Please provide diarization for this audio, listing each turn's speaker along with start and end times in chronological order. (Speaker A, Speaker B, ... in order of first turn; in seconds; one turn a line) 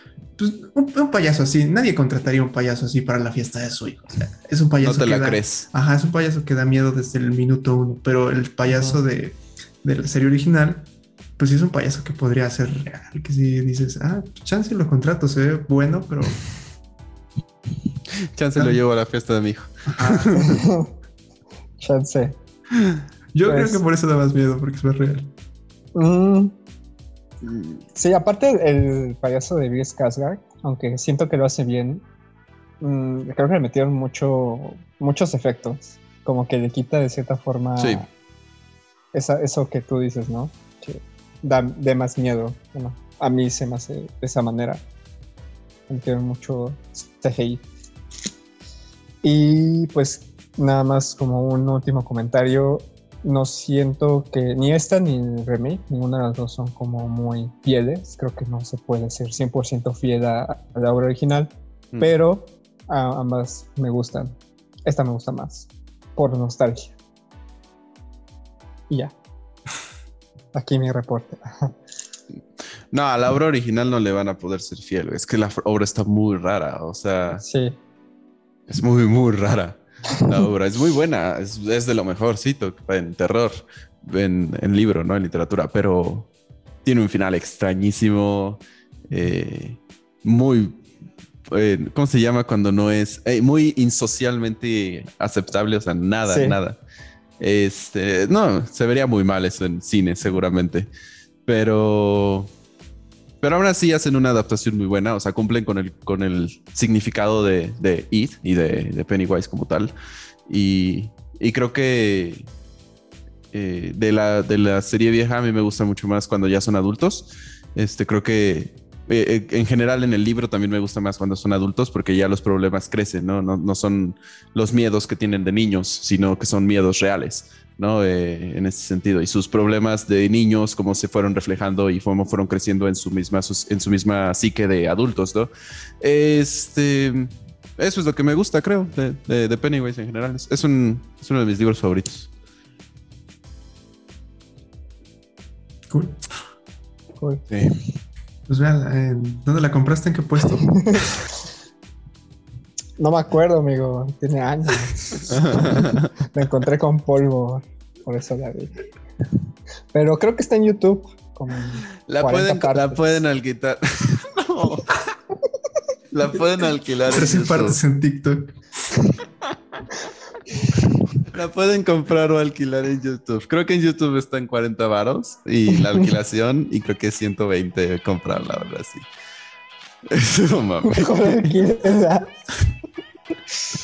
Speaker A: 0.4-16.4
Speaker B: 4.8-5.7
Speaker C: 8.7-9.0
Speaker B: 18.3-20.6
Speaker A: 19.9-20.4
Speaker C: 20.4-20.9
Speaker C: 21.8-22.4
Speaker A: 23.3-25.3
Speaker C: 23.5-23.8
Speaker C: 25.9-26.5
Speaker B: 27.4-27.8
Speaker C: 27.9-32.0
Speaker C: 32.8-38.1
Speaker B: 37.8-38.0
Speaker C: 39.1-44.8
Speaker C: 45.9-47.6
Speaker C: 49.2-67.0
Speaker C: 70.5-71.7
Speaker B: 72.9-77.4
Speaker C: 77.4-77.8
Speaker B: 78.7-86.3
Speaker B: 86.8-90.8
Speaker B: 91.5-96.8
Speaker C: 96.3-96.6
Speaker B: 97.4-100.9
Speaker B: 101.5-102.5
Speaker B: 103.4-109.9
Speaker B: 110.5-112.5
Speaker B: 113.5-135.5
Speaker B: 136.0-142.3
Speaker A: 145.9-146.2
Speaker C: 147.2-147.7
Speaker A: 148.5-151.1
Speaker C: 150.8-151.0
Speaker C: 153.0-158.7
Speaker B: 155.3-156.1
Speaker C: 159.9-163.2
Speaker B: 162.1-165.0
Speaker B: 166.1-167.8
Speaker A: 167.1-168.5
Speaker B: 171.3-179.1
Speaker C: 175.7-176.1
Speaker B: 180.1-181.6
Speaker C: 180.8-182.3